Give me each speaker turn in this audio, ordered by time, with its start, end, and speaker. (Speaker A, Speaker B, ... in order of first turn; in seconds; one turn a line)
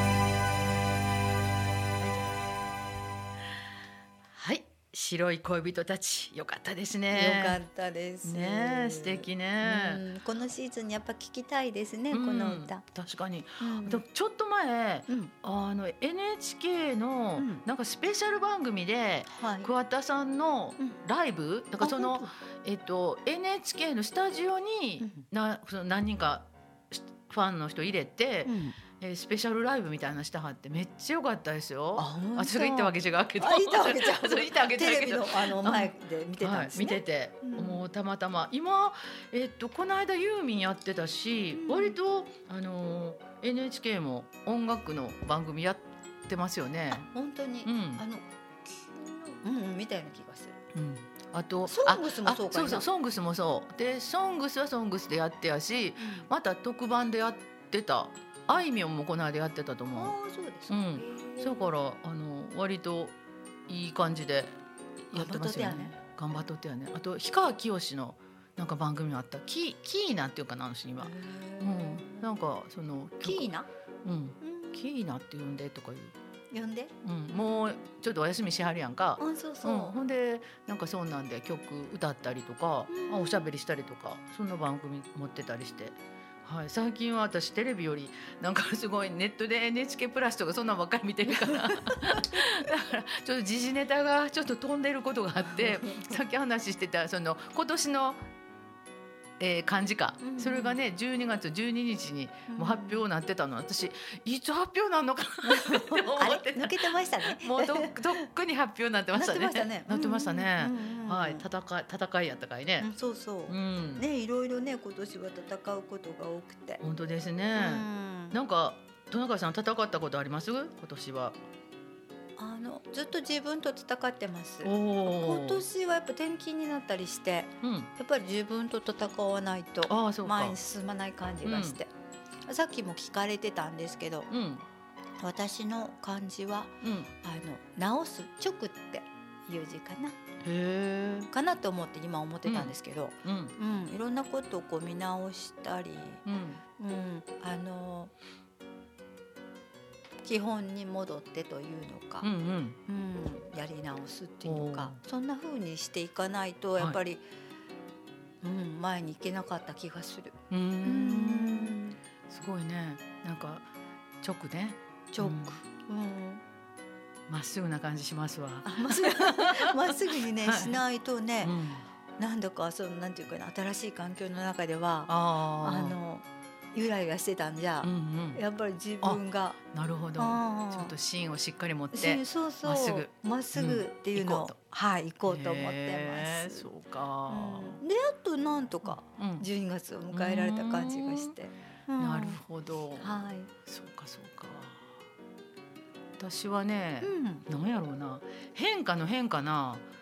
Speaker A: 4.3-7.6
Speaker B: 7.1-12.8
Speaker A: 8.2-10.0
Speaker A: 12.1-47.1
Speaker B: 13.6-14.0
Speaker B: 17.4-17.6
Speaker B: 19.3-19.7
Speaker B: 21.8-22.3
Speaker B: 28.5-28.8
Speaker B: 32.0-37.8
Speaker B: 41.5-42.0
Speaker B: 47.1-50.6
Speaker A: 47.6-48.0
Speaker A: 50.7-60.2
Speaker B: 51.7-52.9
Speaker B: 56.0-56.3
Speaker B: 60.0-61.7
Speaker A: 60.7-63.1
Speaker A: 63.7-64.6
Speaker A: 65.1-73.5
Speaker B: 65.1-65.9
Speaker B: 71.0-72.3
Speaker B: 73.2-73.7
Speaker A: 74.0-76.1
Speaker B: 74.4-74.9
Speaker B: 76.5-76.9
Speaker A: 77.0-98.3
Speaker B: 79.2-80.0
Speaker B: 82.9-83.5
Speaker B: 91.4-92.2
Speaker B: 95.6-96.0
Speaker A: 99.4-112.9
Speaker B: 100.2-100.8
Speaker B: 102.5-103.0
Speaker B: 105.5-108.0
Speaker B: 109.2-111.5
Speaker B: 112.8-116.8
Speaker A: 113.5-114.0
Speaker A: 116.8-121.4
Speaker B: 117.6-118.4
Speaker B: 122.4-131.9
Speaker A: 124.6-125.6
Speaker A: 127.6-127.9
Speaker A: 129.9-130.6
Speaker A: 131.4-131.8
Speaker B: 132.5-134.3
Speaker A: 134.3-134.7
Speaker B: 135.2-140.2
Speaker A: 136.8-137.1
Speaker A: 140.4-141.3
Speaker B: 141.3-146.2
Speaker A: 142.5-142.7
Speaker A: 143.2-143.6
Speaker A: 146.2-146.6
Speaker B: 146.8-148.1
Speaker B: 150.2-152.3
Speaker A: 152.2-152.8
Speaker B: 152.9-157.2
Speaker A: 154.4-155.0
Speaker B: 158.4-162.0
Speaker A: 160.5-161.8
Speaker A: 162.3-163.7
Speaker A: 164.2-165.6
Speaker B: 165.1-166.4
Speaker A: 167.3-170.8
Speaker B: 168.7-171.6
Speaker A: 171.4-171.8
Speaker B: 172.2-179.6
Speaker A: 175.1-176.0
Speaker A: 177.8-178.4
Speaker A: 179.7-184.6
Speaker B: 180.2-180.9
Speaker B: 181.9-186.7
Speaker A: 185.3-187.8
Speaker B: 187.3-192.4
Speaker A: 188.8-189.5
Speaker A: 190.1-191.4
Speaker A: 192.0-194.9
Speaker B: 193.0-193.5
Speaker A: 196.2-199.8
Speaker B: 197.0-197.4